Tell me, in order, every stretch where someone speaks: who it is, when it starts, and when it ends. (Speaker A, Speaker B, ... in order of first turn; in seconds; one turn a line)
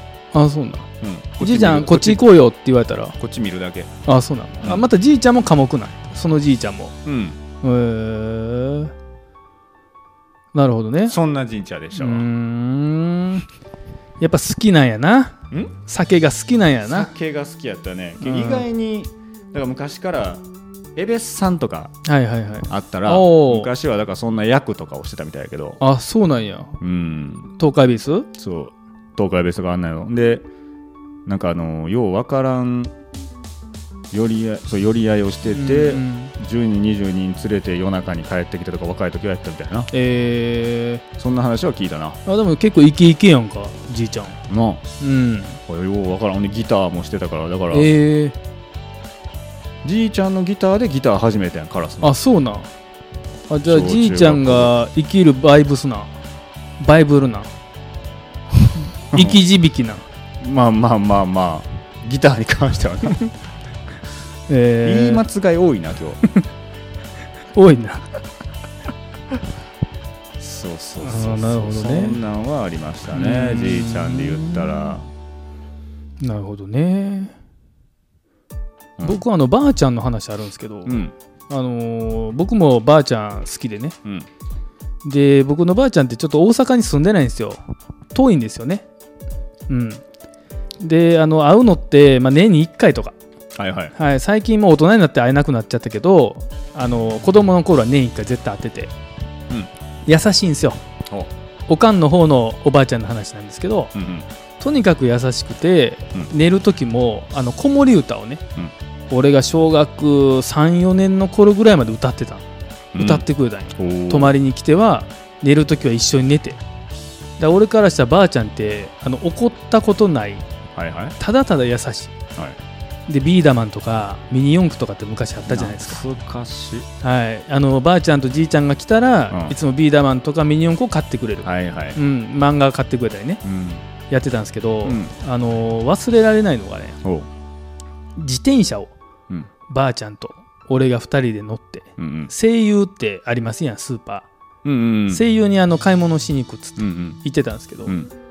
Speaker A: 0.3-0.9
Speaker B: 1.0-2.2
Speaker A: 1.4-3.1
Speaker B: 3.2-3.9
Speaker A: 4.0-6.9
Speaker B: 4.6-4.9
Speaker B: 7.0-7.4
Speaker A: 7.6-8.9
Speaker A: 10.5-11.2
Speaker B: 11.1-12.3
Speaker A: 11.9-13.4
Speaker A: 14.2-17.1
Speaker B: 16.8-20.4
Speaker A: 18.2-18.6
Speaker B: 20.9-21.9
Speaker A: 22.0-23.7
Speaker B: 22.7-25.8
Speaker A: 25.8-26.8
Speaker B: 26.8-27.5
Speaker A: 27.6-28.3
Speaker B: 28.4-30.4
Speaker B: 31.2-32.9
Speaker B: 34.1-39.9
Speaker A: 35.5-36.3
Speaker A: 39.9-41.0
Speaker B: 41.1-42.2
Speaker A: 42.2-44.4
Speaker B: 44.5-44.8
Speaker A: 45.0-45.6
Speaker B: 45.7-47.9
Speaker A: 47.7-48.4
Speaker B: 49.8-52.1
Speaker A: 52.0-52.7
Speaker A: 53.5-56.1
Speaker B: 53.6-54.7
Speaker A: 56.8-57.5
Speaker B: 59.1-59.4
Speaker A: 59.1-60.0
Speaker B: 60.4-63.3
Speaker A: 64.5-65.2
Speaker B: 64.8-66.2
Speaker A: 67.5-68.1
Speaker B: 70.4-75.0
Speaker A: 71.0-72.2
Speaker A: 73.1-75.0
Speaker A: 76.2-77.3
Speaker A: 79.0-84.0
Speaker B: 80.8-81.1
Speaker A: 85.0-87.6
Speaker A: 88.1-88.8
Speaker A: 89.7-90.0
Speaker A: 90.8-93.1
Speaker B: 93.5-93.9
Speaker A: 93.9-98.9
Speaker A: 100.1-100.8
Speaker A: 101.7-103.9
Speaker B: 103.9-104.2
Speaker A: 104.6-108.4
Speaker A: 109.1-112.4
Speaker B: 112.9-113.2
Speaker A: 113.0-116.6
Speaker B: 113.8-114.3
Speaker A: 117.4-120.4
Speaker B: 120.7-121.2
Speaker A: 121.2-122.1
Speaker A: 123.1-126.0
Speaker B: 125.5-126.9
Speaker A: 127.0-133.4
Speaker B: 129.3-129.6
Speaker B: 131.4-132.0
Speaker B: 133.4-133.8
Speaker A: 134.1-137.0
Speaker B: 134.8-135.1
Speaker A: 138.2-138.9
Speaker A: 139.7-144.3
Speaker B: 142.0-142.3
Speaker B: 144.6-145.2
Speaker A: 145.1-147.9
Speaker B: 146.8-147.2
Speaker B: 147.8-148.1